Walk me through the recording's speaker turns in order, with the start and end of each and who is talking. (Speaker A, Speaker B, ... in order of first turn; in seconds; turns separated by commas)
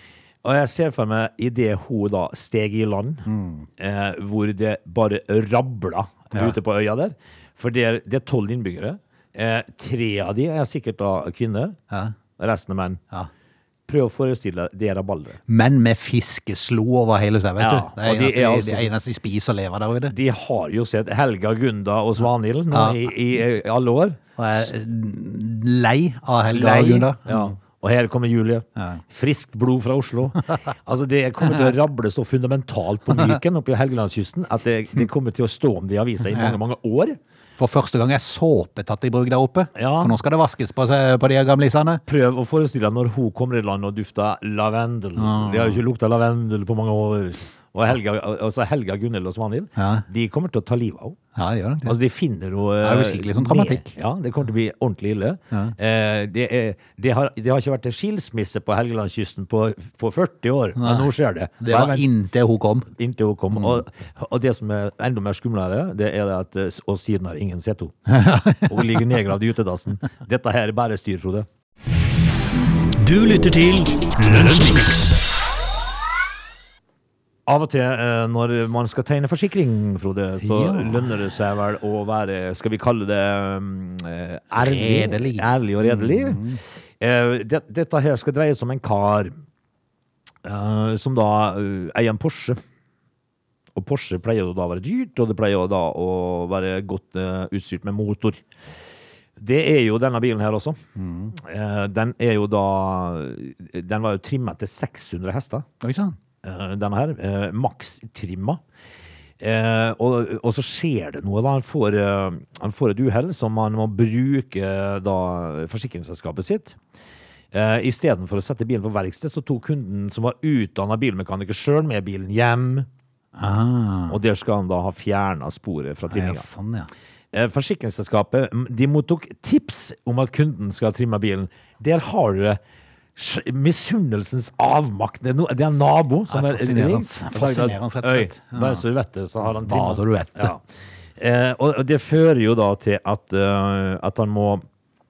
Speaker A: 0.4-3.2, Speaker B: 3.2-3.7, Speaker A: 3.8-11.8, Speaker A: 12.4-13.0, Speaker A: 13.9-15.4, Speaker B: 15.5-20.1, Speaker A: 17.6-18.9, Speaker A: 20.1-24.7, Speaker B: 22.7-23.0, Speaker B: 24.4-27.5, Speaker A: 26.5-37.2, Speaker B: 37.6-42.0, Speaker A: 39.7-40.2, Speaker A: 42.1-51.2, Speaker B: 45.2-45.8, Speaker B: 49.8-50.0, Speaker B: 51.3-52.0, Speaker A: 51.8-62.1, Speaker B: 52.8-53.9, Speaker B: 60.8-61.1, Speaker B: 61.6-62.9, Speaker A: 62.9-71.5, Speaker B: 63.5-63.8, Speaker B: 68.1-68.8, Speaker C: 73.0-75.2, Speaker A: 77.5-86.4, Speaker B: 80.4-81.1, Speaker B: 84.5-86.6, Speaker A: 87.0-89.3, Speaker A: 90.4-92.6, Speaker A: 93.7-98.4, Speaker A: 99.4-100.8, Speaker B: 101.0-101.3, Speaker A: 101.3-105.7, Speaker B: 105.8-106.1, Speaker A: 106.4-108.6, Speaker A: 109.4-116.8, Speaker A: 117.5-122.9, Speaker B: 123.4-124.2, Speaker A: 124.1-126.4, Speaker B: 126.1-126.9, Speaker A: 127.3-132.6, Speaker A: 133.2-140.6, Speaker B: 136.3-138.8, Speaker B: 139.6-140.5, Speaker A: 141.2-144.6